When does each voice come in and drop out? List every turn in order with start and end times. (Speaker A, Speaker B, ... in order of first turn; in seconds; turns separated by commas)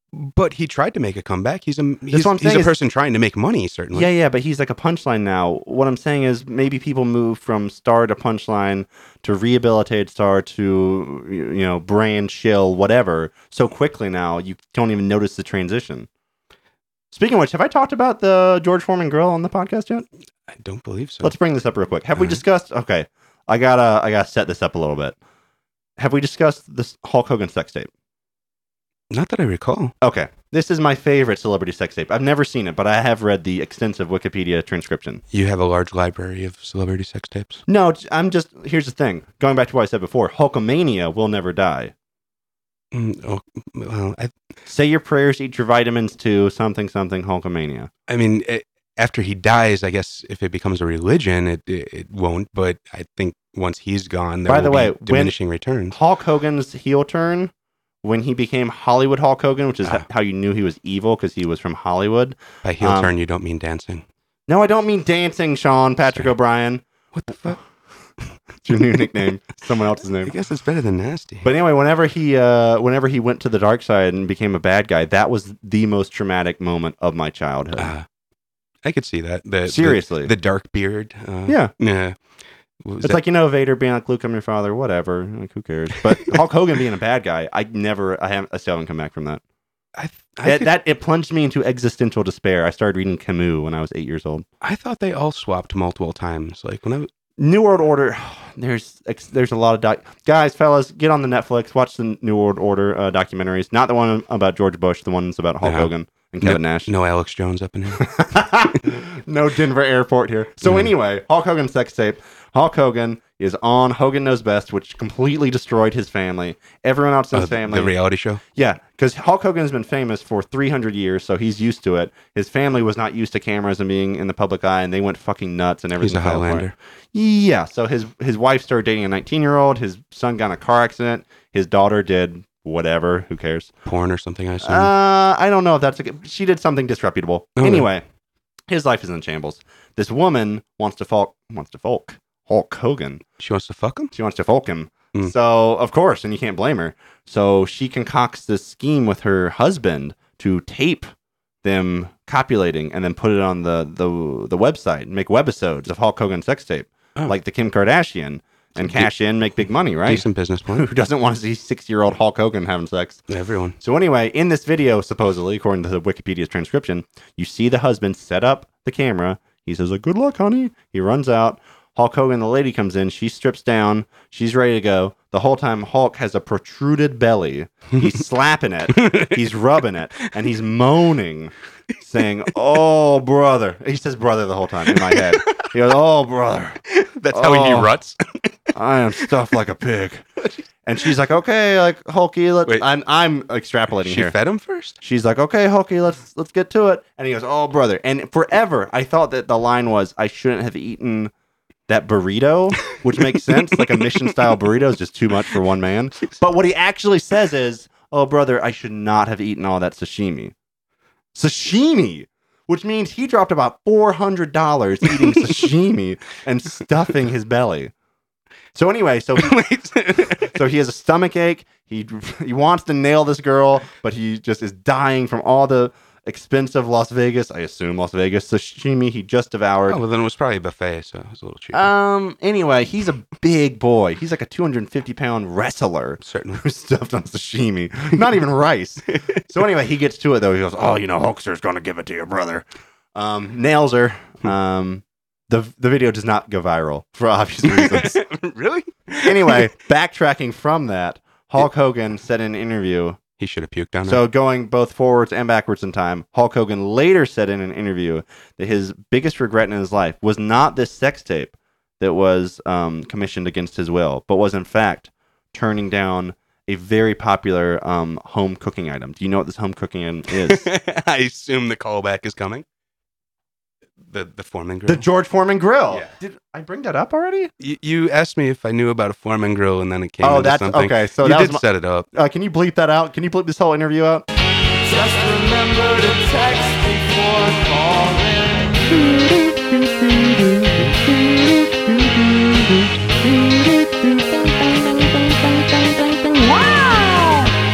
Speaker A: 0.1-4.1, Speaker B: 2.1-2.7, Speaker B: 3.9-16.1, Speaker B: 17.1-20.1, Speaker A: 20.5-21.3, Speaker B: 21.2-25.2, Speaker A: 22.2-22.4, Speaker B: 26.0-27.9, Speaker A: 29.1-29.9, Speaker B: 30.0-35.2, Speaker A: 35.3-37.6, Speaker B: 37.7-41.9, Speaker A: 42.9-44.3, Speaker B: 44.7-47.9, Speaker A: 48.1-56.0, Speaker B: 54.5-55.3, Speaker B: 55.9-57.5, Speaker B: 58.0-63.1, Speaker A: 62.6-64.0, Speaker B: 64.5-66.8, Speaker A: 66.1-66.3, Speaker A: 67.1-67.6, Speaker B: 68.6-70.3, Speaker A: 70.2-71.5, Speaker B: 71.4-77.9, Speaker A: 77.8-78.1, Speaker A: 78.8-82.2, Speaker B: 79.7-80.3, Speaker B: 81.5-81.7, Speaker A: 82.8-83.2, Speaker B: 83.0-89.4, Speaker A: 90.0-90.7, Speaker B: 90.5-94.5, Speaker A: 94.6-97.1, Speaker B: 97.4-106.9, Speaker A: 105.6-108.1, Speaker B: 108.0-118.0, Speaker A: 110.6-110.9, Speaker A: 117.3-118.4, Speaker B: 118.5-133.7, Speaker A: 126.0-126.8, Speaker A: 133.9-134.9, Speaker B: 134.6-138.0, Speaker A: 137.6-137.9, Speaker B: 138.7-143.2, Speaker A: 143.4-144.1, Speaker B: 144.1-151.1, Speaker B: 151.6-163.2, Speaker A: 158.8-159.1, Speaker A: 160.1-160.9, Speaker A: 163.3-163.8, Speaker B: 163.8-187.9, Speaker A: 178.9-179.4, Speaker A: 184.9-185.7, Speaker A: 186.9-188.5, Speaker B: 188.7-190.3, Speaker B: 190.8-194.3, Speaker A: 194.0-195.0, Speaker B: 195.0-201.3, Speaker B: 201.9-210.5, Speaker A: 203.4-204.0, Speaker B: 211.3-217.9, Speaker B: 218.7-219.6, Speaker A: 219.4-220.6, Speaker B: 220.2-230.0, Speaker A: 229.9-231.9, Speaker B: 231.7-248.2, Speaker A: 236.2-236.6, Speaker A: 247.6-249.7, Speaker B: 249.2-253.2, Speaker A: 253.4-254.2, Speaker B: 254.1-270.7, Speaker A: 270.3-272.6, Speaker A: 274.1-275.1, Speaker B: 274.9-277.5, Speaker A: 277.6-282.1, Speaker B: 280.2-284.2, Speaker C: 284.9-288.6, Speaker B: 288.9-292.7, Speaker C: 294.4-297.5